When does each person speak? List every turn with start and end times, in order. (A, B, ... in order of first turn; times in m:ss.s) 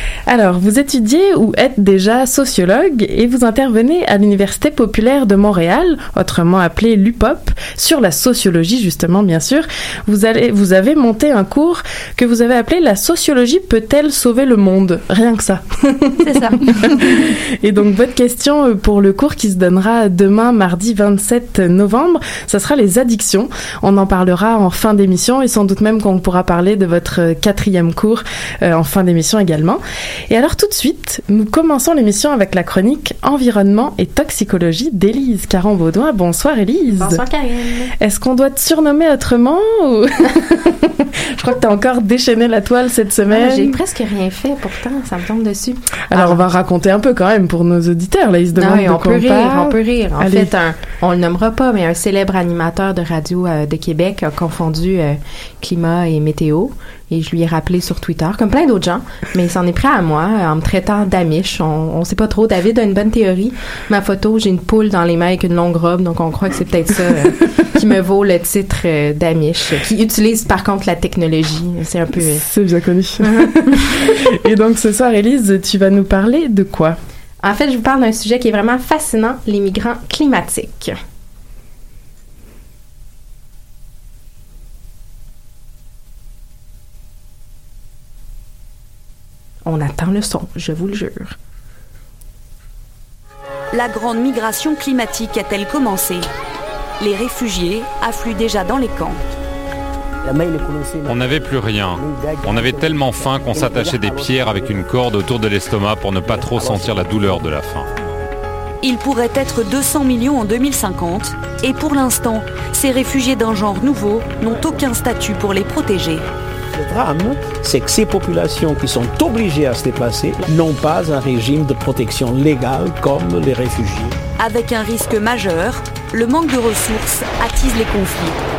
0:00.3-0:37.2 A
0:36.9-0:37.9 B
0:38.0-0:43.7 A
0:43.3-0:46.4 B
0:46.1-0:50.5 A
0:48.5-1:12.4 B
1:12.2-1:17.0 A
1:17.4-1:20.9 B
1:29.6-1:31.3 B
1:33.7-1:36.3 C
1:37.0-1:39.2 C
1:41.0-1:47.9 D
1:48.8-1:56.2 C
1:56.7-2:04.2 E
2:04.4-2:08.4 C